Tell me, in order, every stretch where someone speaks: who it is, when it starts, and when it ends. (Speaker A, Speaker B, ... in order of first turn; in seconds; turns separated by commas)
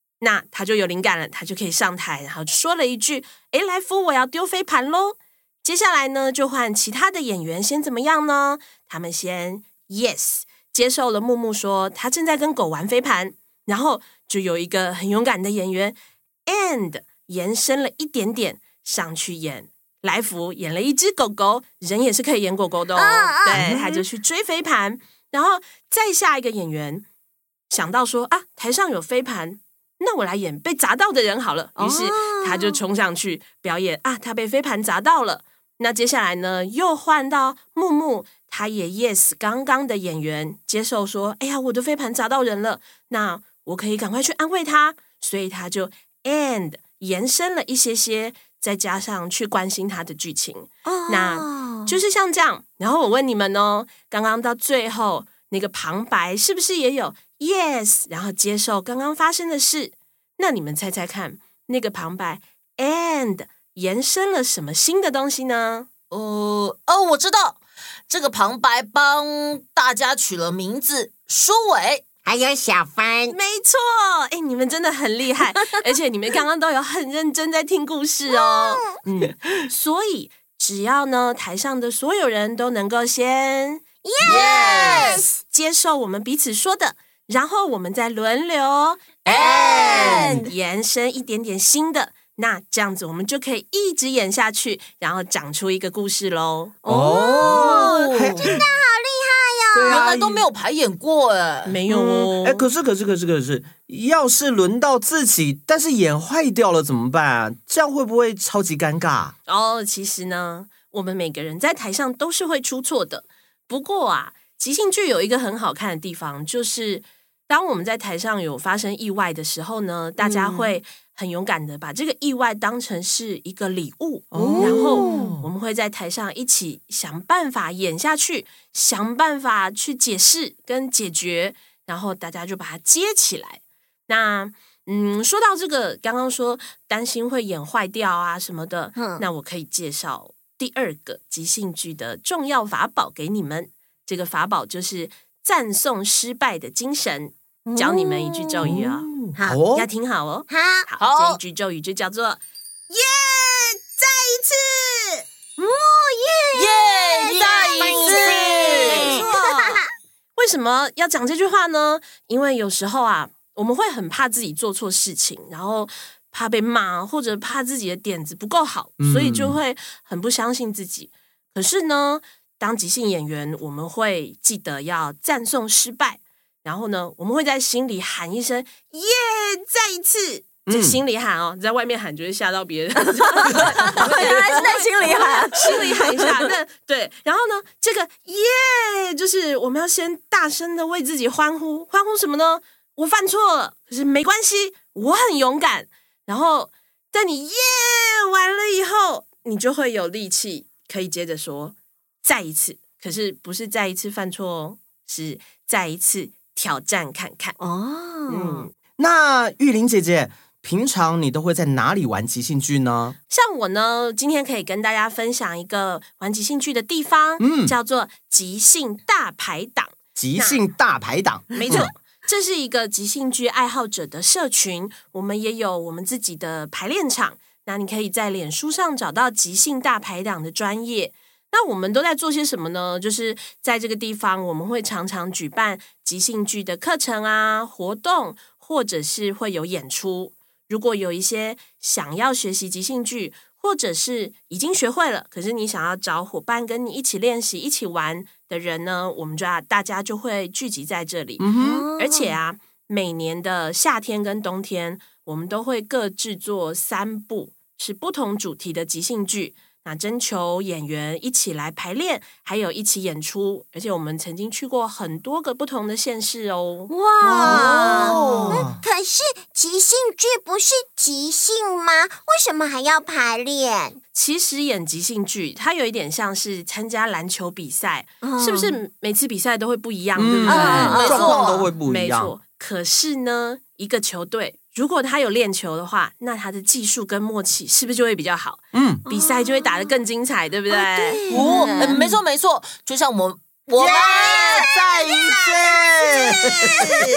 Speaker A: 0.2-27.0, Speaker B: 23.0-23.8, Speaker C: 23.5-24.0, Speaker A: 27.7-65.9, Speaker D: 31.8-32.8, Speaker D: 50.9-52.0, Speaker E: 66.1-67.6, Speaker E: 68.1-72.0, Speaker F: 72.2-73.4, Speaker A: 73.3-83.8, Speaker B: 78.3-78.9, Speaker B: 84.0-85.3, Speaker E: 84.2-85.2, Speaker C: 84.3-84.9, Speaker A: 84.7-89.1, Speaker B: 89.3-90.2, Speaker E: 89.3-90.3, Speaker A: 89.7-96.8, Speaker D: 89.8-90.5, Speaker D: 96.8-98.0, Speaker C: 96.9-98.6, Speaker E: 97.4-98.5, Speaker B: 98.4-100.1, Speaker C: 99.7-100.5, Speaker E: 99.8-101.8, Speaker A: 101.7-102.7, Speaker C: 101.9-109.3, Speaker A: 109.5-149.1, Speaker D: 120.2-120.8, Speaker C: 124.3-125.5, Speaker D: 124.3-125.3, Speaker D: 138.9-139.2, Speaker D: 147.7-148.8, Speaker C: 148.6-149.9, Speaker A: 149.7-155.2, Speaker B: 150.5-150.9, Speaker E: 151.0-151.4, Speaker B: 155.6-159.9, Speaker E: 156.5-159.1, Speaker F: 157.8-159.3, Speaker A: 158.8-159.8, Speaker A: 160.4-207.6, Speaker C: 169.0-169.6, Speaker C: 180.7-181.0, Speaker D: 183.4-186.5, Speaker D: 207.6-208.6, Speaker A: 208.3-208.7, Speaker C: 208.4-213.2, Speaker A: 213.3-220.6, Speaker C: 217.4-217.8, Speaker C: 220.2-221.9, Speaker A: 221.5-266.9, Speaker C: 251.4-251.9, Speaker D: 251.6-252.3, Speaker D: 266.9-268.6, Speaker C: 267.2-268.8, Speaker B: 267.3-274.0, Speaker A: 267.6-268.1, Speaker A: 274.1-291.2, Speaker D: 278.2-278.8, Speaker C: 280.1-282.3, Speaker D: 280.5-281.4, Speaker E: 280.6-281.7, Speaker C: 288.7-289.0, Speaker D: 289.1-289.9, Speaker D: 290.7-292.1, Speaker E: 291.3-294.7, Speaker F: 293.8-295.7, Speaker B: 294.2-296.8, Speaker C: 295.0-296.2